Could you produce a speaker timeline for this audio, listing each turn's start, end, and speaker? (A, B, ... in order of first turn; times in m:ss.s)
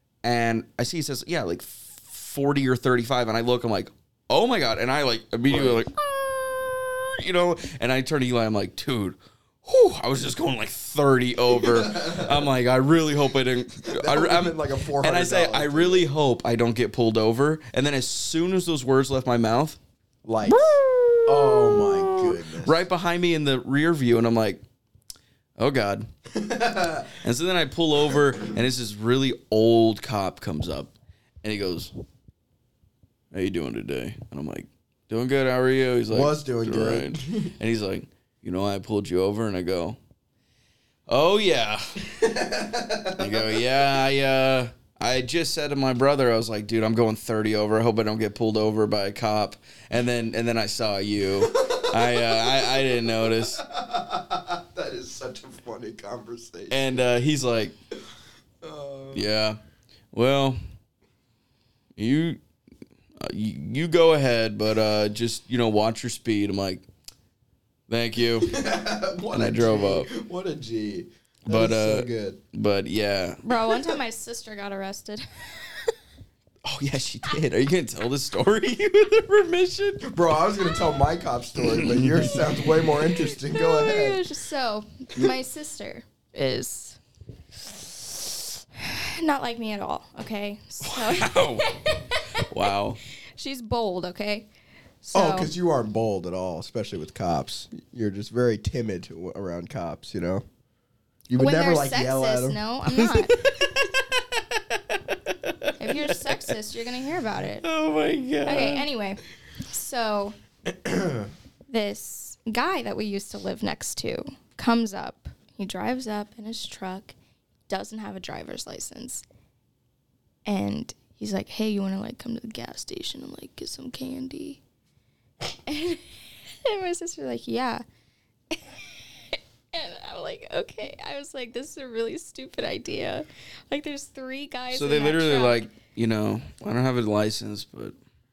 0:00.2-0:19.8 A
0:05.5-0:05.8 B
0:11.6-0:12.5 B
0:13.9-0:16.1 B
0:20.2-0:22.8 B
0:20.4-0:24.6 A
0:25.6-0:26.1 A
0:26.3-0:27.1 B
0:27.2-0:31.9 A
0:33.3-0:40.0 A
0:36.1-0:37.5 B
0:41.1-0:42.1 A
0:42.1-0:43.8 B
0:43.2-0:53.6 A
0:51.4-0:56.9 B
0:56.7-0:57.8 A
0:58.6-0:59.3 B
0:59.1-0:59.6 A
1:00.1-1:00.6 A
1:02.0-1:02.4 A
1:03.2-1:06.8 A
1:07.9-1:08.6 A
1:08.4-1:12.4 B
1:09.3-1:10.1 A
1:11.5-1:13.4 A
1:13.4-1:15.9 C
1:16.6-1:20.1 A
1:20.0-1:24.2 B
1:21.6-1:22.7 A
1:23.5-1:27.0 C
1:27.7-1:32.5 C
1:30.8-1:31.7 A
1:32.4-1:33.0 A
1:33.4-1:34.5 C
1:35.0-1:35.5 C
1:35.1-1:40.4 B
1:41.3-1:42.6 B
1:41.4-1:43.4 C
1:42.9-1:46.6 A
1:45.8-1:47.6 C
1:47.6-1:48.9 A
1:48.4-1:50.4 C
1:50.7-1:51.3 B
1:51.7-1:57.1 C
1:57.7-1:59.2 C
2:00.5-2:04.6 C
2:05.5-2:07.8 C
2:08.5-2:15.7 C
2:14.7-2:18.0 A